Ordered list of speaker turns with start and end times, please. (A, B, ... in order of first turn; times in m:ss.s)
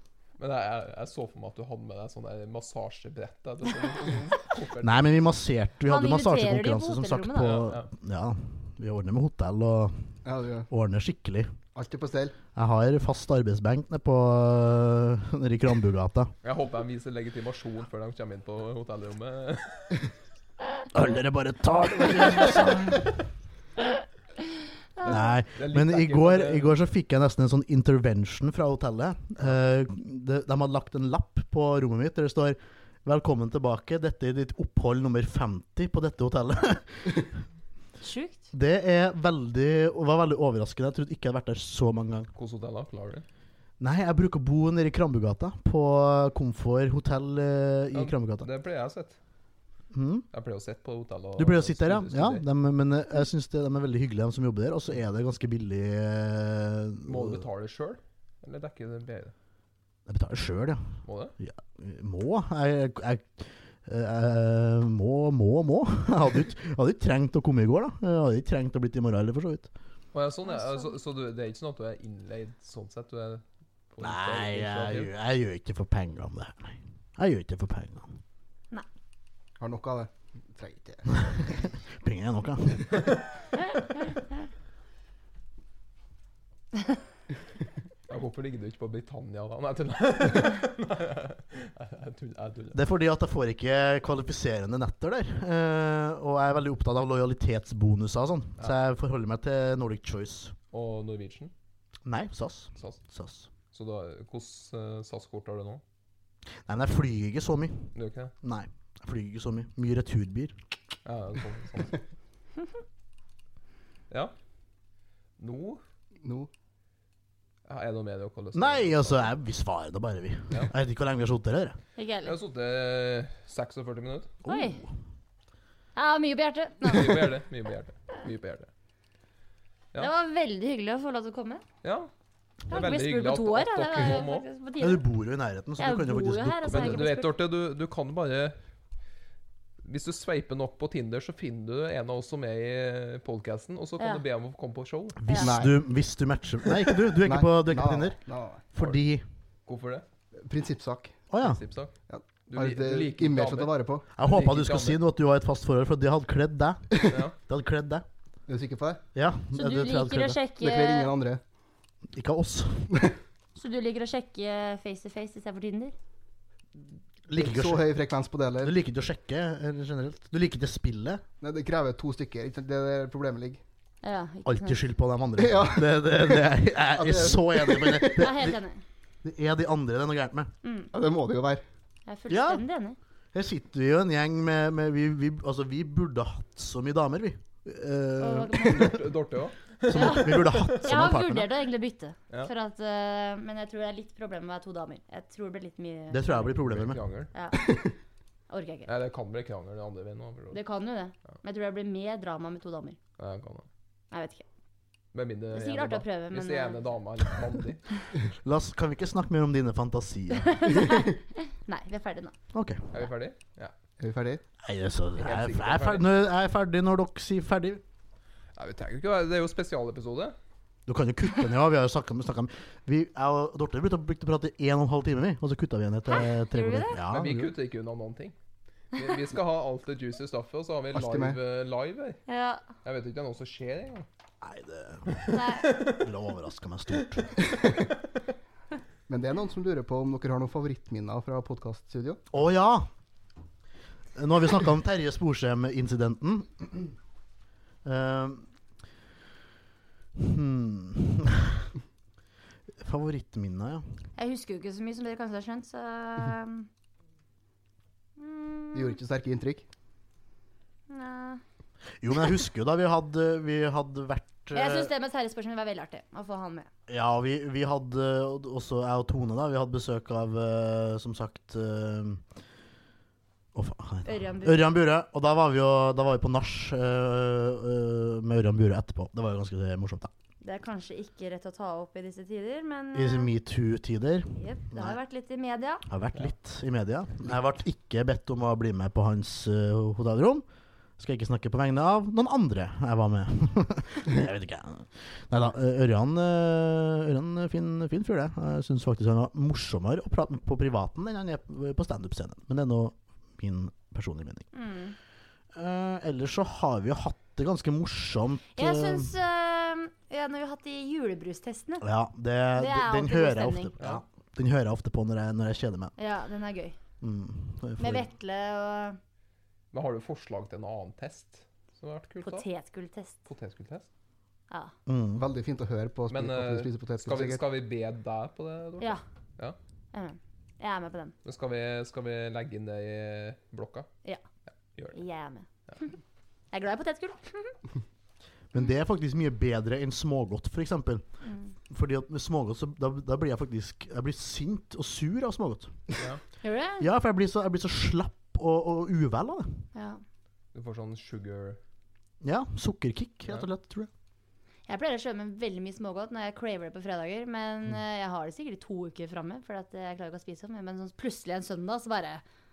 0:00.4-0:05.0 A
0:04.8-0:09.9 B
0:05.9-0:07.7 C
0:07.4-0:07.9 A
0:10.2-0:10.7 D
0:10.7-0:11.5 B
0:11.8-0:12.4 D
0:12.6-0:16.3 B
0:16.4-0:20.1 A
0:20.9-0:23.2 B
0:25.0-0:25.3 C
0:25.0-0:37.3 B
0:25.0-0:26.8 A
0:38.0-0:38.5 C
0:38.5-0:42.3 B
0:42.4-0:43.2 A
0:43.8-0:48.5 B
0:47.9-0:49.2 A
0:49.9-0:50.3 B
0:50.3-0:52.4 A
0:51.4-0:57.4 B
0:57.1-0:59.3 A
1:00.1-1:00.8 B
1:01.0-1:01.4 A
1:01.4-1:09.7 B
1:10.1-1:15.1 A
1:10.6-1:10.8 C
1:14.0-1:18.2 B
1:19.6-1:21.2 D
1:21.2-1:23.0 B
1:28.1-1:32.8 A
1:32.7-1:40.6 B
1:40.7-1:41.5 A
1:42.0-1:43.5 B
1:43.7-1:45.8 A
1:46.7-1:50.6 B
1:48.0-1:48.3 A
1:51.0-1:52.0 A
1:55.4-1:55.8 A
1:56.2-1:56.5 D
1:57.7-1:59.3 A
1:58.5-2:01.8 B
2:02.0-2:02.4 C
2:02.2-2:04.4 A
2:04.4-2:04.8 B
2:04.4-2:04.8 C
2:06.0-2:07.3 C
2:06.8-2:08.7 A
2:10.0-2:11.6 C
2:11.8-2:12.1 A
2:12.7-2:14.4 A
2:12.7-2:15.0 C
2:14.8-2:17.1 B
2:15.8-2:17.3 C
2:16.7-2:18.6 A
2:19.8-2:25.2 A
2:25.2-2:28.2 B
2:25.4-2:25.8 D
2:27.1-2:28.6 D
2:28.7-2:29.2 B
2:29.7-2:30.1 A
2:30.4-2:31.2 D
2:31.3-2:31.6 B
2:31.4-2:31.9 A
2:32.1-2:34.0 D
2:32.5-2:35.0 A
2:34.2-2:38.0 B
2:37.1-2:37.4 A
2:38.5-2:39.0 D
2:39.2-2:40.4 B
2:39.5-2:41.1 C
2:40.6-2:41.4 D
2:42.1-2:42.9 B
2:43.6-2:45.9 C
2:47.3-2:47.9 B
2:47.4-2:48.7 D
2:48.6-2:51.2 B
2:51.4-2:53.6 D
2:54.0-2:54.8 C
2:54.4-2:58.5 B
2:55.4-2:58.3 D
2:58.1-2:58.8 C
2:59.2-3:00.5 B
3:00.6-3:00.9 C
3:00.9-3:01.6 D
3:02.1-3:03.0 C
3:02.3-3:02.6 B
3:03.3-3:09.1 B
3:08.2-3:09.0 C
3:08.6-3:10.9 A
3:09.9-3:11.5 B
3:09.9-3:16.3 C
3:16.1-3:17.0 B
3:16.3-3:17.3 A
3:17.3-3:17.6 C
3:18.5-3:18.9 C
3:18.9-3:20.6 A
3:20.5-3:23.0 C
3:23.2-3:23.7 A
3:24.1-3:24.4 C
3:25.1-3:28.0 A
3:25.5-3:26.8 C
3:28.4-3:30.8 B
3:30.5-3:32.3 C
3:32.5-3:32.9 B
3:32.9-3:33.7 A
3:34.0-3:34.4 D
3:34.6-3:37.8 B
3:35.2-3:36.0 A
3:38.6-3:40.4 A
3:40.9-3:47.5 B
3:46.1-3:47.0 C
3:47.1-3:48.4 A
3:48.9-3:52.2 A
3:50.9-3:51.4 D
3:52.3-3:52.6 C
3:52.8-3:54.1 A
3:54.4-3:57.4 B
3:55.1-3:56.0 A
3:55.3-3:55.7 C
3:59.1-4:02.2 D
4:02.3-4:02.9 B
4:04.2-4:06.9 B
4:07.8-4:08.4 B
4:10.2-4:11.7 B
4:12.8-4:13.9 B
4:14.2-4:16.7 C
4:18.2-4:19.0 C
4:18.7-4:19.7 D
4:20.9-4:21.4 C
4:22.0-4:24.9 B
4:24.5-4:26.7 C
4:26.9-4:32.2 B
4:33.5-4:40.1 B
4:34.0-4:34.7 C
4:40.4-4:43.3 C
4:42.9-4:45.0 B
4:44.4-4:45.9 C
4:45.9-4:50.4 B
4:51.0-5:04.5 B
5:04.5-5:05.0 C
5:05.5-5:09.1 B
5:08.6-5:11.9 C
5:11.8-5:15.9 B
5:12.6-5:13.7 C
5:16.0-5:16.8 C
5:17.0-5:18.1 B
5:17.8-5:19.0 C
5:19.7-5:22.4 A
5:22.2-5:23.2 C
5:23.3-5:23.9 A
5:24.9-5:25.3 B
5:25.2-5:27.4 D
5:26.1-5:29.6 A
5:29.9-5:31.2 C
5:31.2-5:33.9 A
5:34.9-5:36.0 C
5:36.5-5:37.6 C
5:38.5-5:41.0 B
5:41.7-5:45.7 B
5:46.4-5:46.9 C
5:46.8-5:49.6 B
5:49.7-5:50.0 C
5:50.5-5:51.6 A
5:52.2-5:53.9 B
5:54.7-6:02.2 C